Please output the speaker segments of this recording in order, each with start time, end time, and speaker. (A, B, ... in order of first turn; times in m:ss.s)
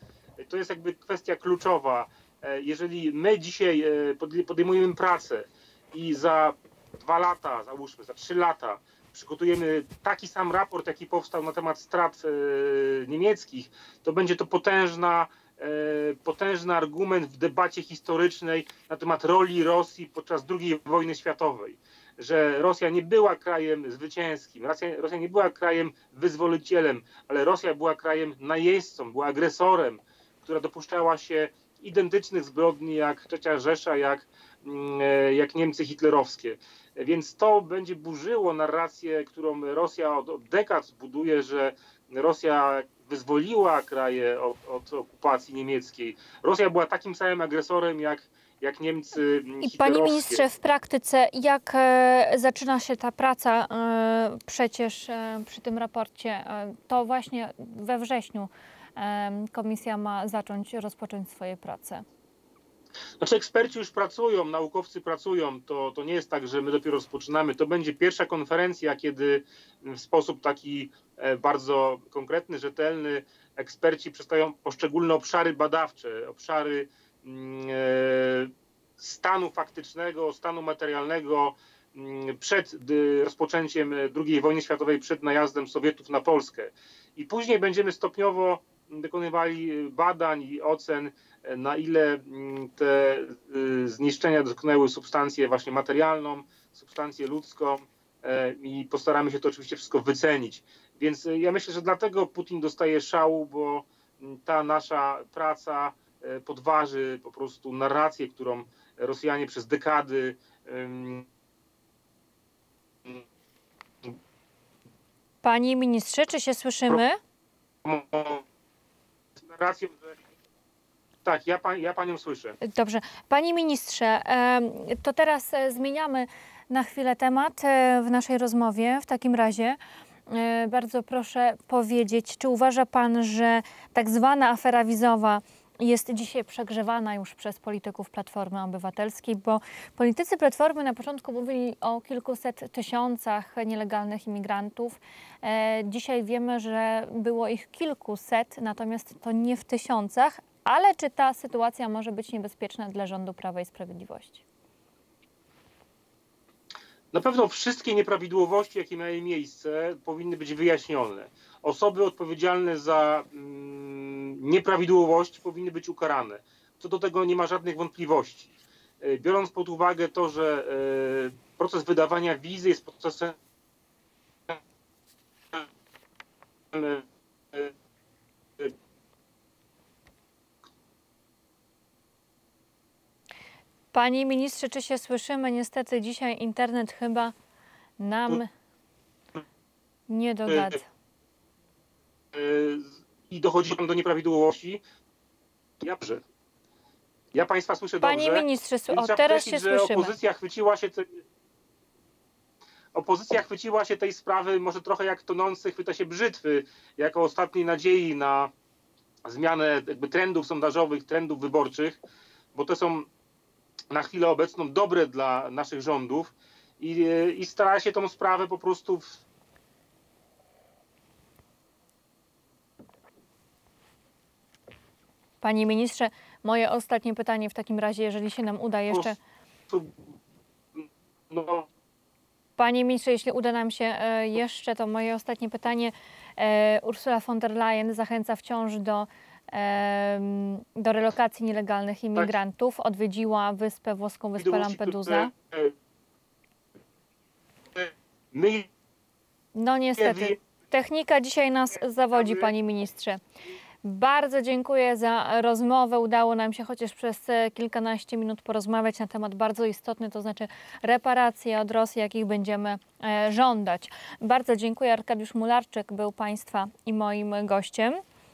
0:00.4-0:50.4 A
0:49.6-1:02.0 B
1:03.2-1:51.3 A
1:55.4-1:57.2 B
1:57.8-1:58.4 A
1:59.4-2:00.2 A
2:01.2-2:02.6 A
2:02.6-2:09.8 B
2:10.3-2:34.4 B
2:37.1-2:53.4 A
2:56.7-2:57.7 A
3:03.9-3:07.3 B
3:08.0-3:08.5 B
3:10.1-3:10.9 B
3:12.3-3:14.8 A
3:15.8-3:16.2 A
3:17.3-3:21.2 A
3:18.0-3:20.1 B
3:22.9-3:28.5 A
3:29.2-3:32.0 A
3:32.5-3:33.1 A
3:33.9-3:39.2 A
3:45.4-3:49.2 B
3:49.7-3:50.0 A
3:50.8-3:51.7 A
3:52.6-4:05.3 B
4:04.4-4:05.7 A
4:07.8-4:08.7 A
4:09.6-4:13.2 B
4:10.0-4:10.4 A
4:12.1-4:12.5 A
4:13.8-4:28.0 B